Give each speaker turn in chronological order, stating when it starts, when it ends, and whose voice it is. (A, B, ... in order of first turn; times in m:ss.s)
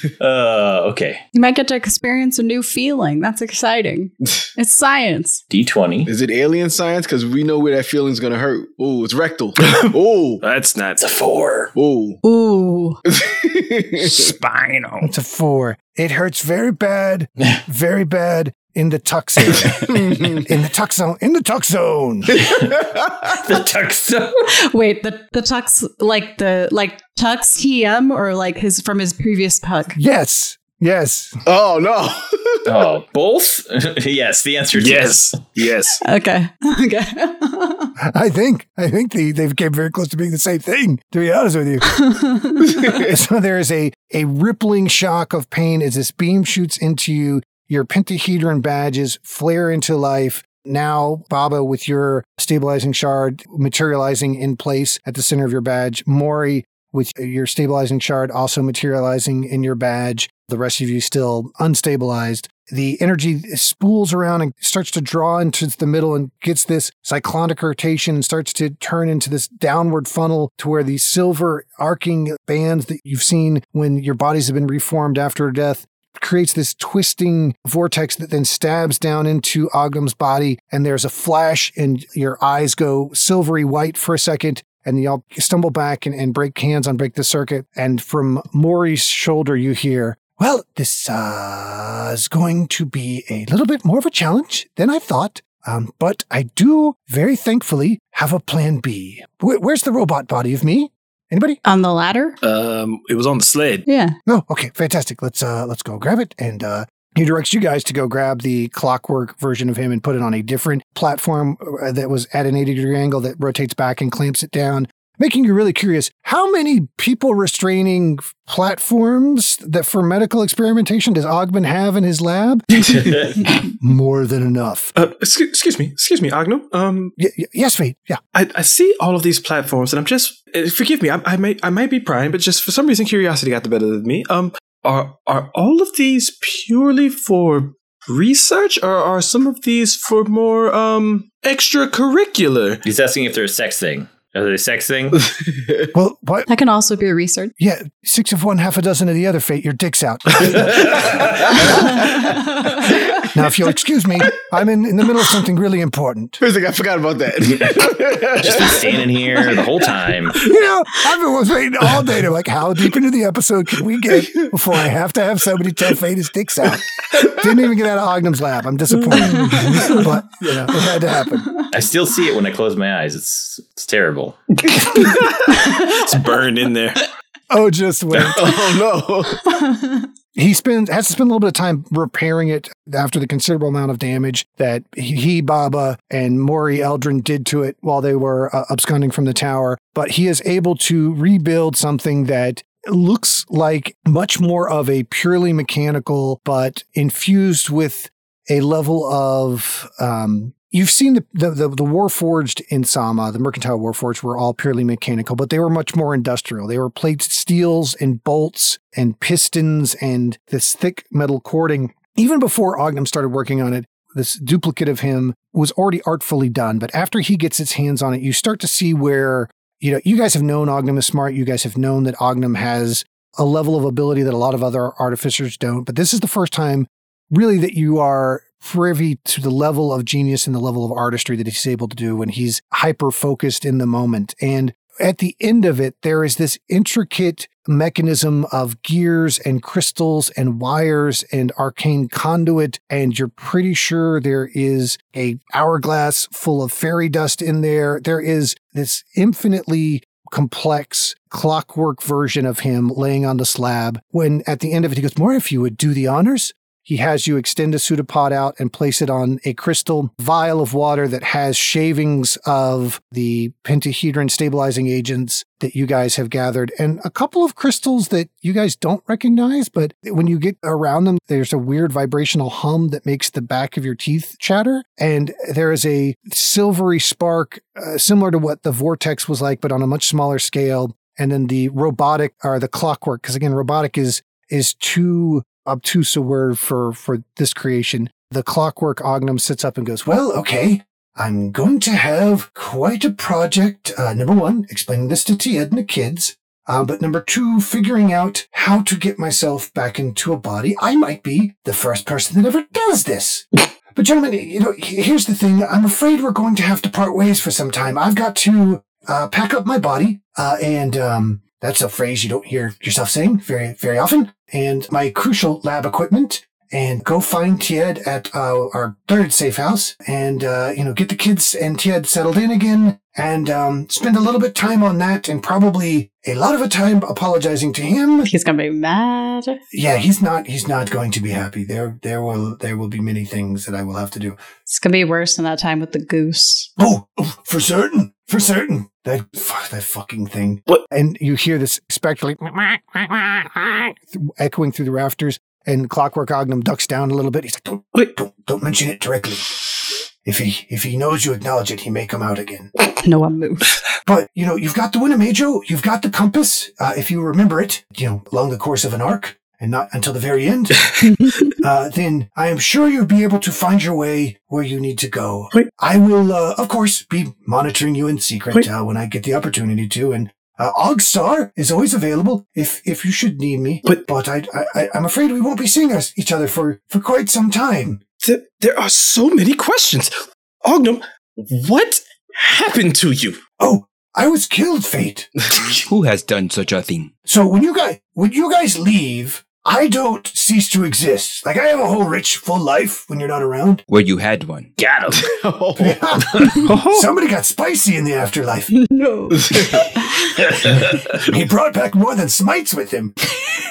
0:00.2-0:01.2 A
0:01.3-0:05.4 B
0:05.5-0:06.1 A
0:06.1-0:10.4 C
0:09.6-0:11.0 D
0:11.0-0:11.7 A
0:11.7-0:12.2 C
0:12.2-0:13.0 B
0:13.1-0:14.2 C
0:14.1-0:15.1 D
0:15.0-0:22.4 E
0:19.8-0:20.4 C
0:22.3-0:23.3 C
0:23.3-0:24.5 A
0:24.6-0:30.0 B
0:29.9-0:31.4 E
0:31.4-0:32.8 C
0:32.6-0:35.4 A
0:34.7-0:36.0 D
0:36.0-0:37.9 B
0:38.0-0:42.1 E
0:41.9-0:42.7 B
0:42.6-0:43.1 C
0:43.0-1:41.6 E
1:41.6-1:42.4 B
1:42.4-1:43.8 D
1:43.8-1:44.2 B
1:44.2-2:03.1 E
2:03.7-2:04.9 E
2:04.9-2:07.1 D
2:07.2-2:08.2 E
2:08.3-2:22.8 D
2:22.8-2:25.2 A
2:25.5-2:25.8 C
2:25.9-2:26.5 E
2:26.5-2:27.5 B
2:27.6-2:31.1 E
2:30.5-2:31.2 A
2:33.3-2:36.4 E
2:36.4-2:39.6 C
2:38.4-2:40.4 A
2:40.4-2:51.5 E
2:49.0-2:50.0 D
2:49.3-2:49.7 B
2:51.7-2:54.4 A
2:55.0-2:57.1 D
2:55.6-2:55.8 B
2:57.5-2:58.6 E
2:58.3-2:59.4 C
2:59.4-3:00.1 B
3:00.3-5:28.3 E
5:28.2-5:29.6 B
5:29.7-5:34.4 E
5:34.6-5:36.7 B
5:36.8-5:52.7 E
5:53.0-5:53.8 B
5:54.0-6:01.0 E
6:01.0-6:01.4 B
6:01.6-6:18.0 E
6:18.2-6:20.1 D
6:20.6-6:23.4 D
6:23.6-6:25.3 E
6:25.9-6:27.1 F
6:27.2-6:33.8 E
6:33.9-6:34.7 F
6:34.8-6:35.3 A
6:35.1-6:36.6 C
6:35.8-6:38.7 E
6:36.5-6:37.1 D
6:38.7-6:40.2 B
6:39.4-6:39.8 C
6:41.2-6:43.3 E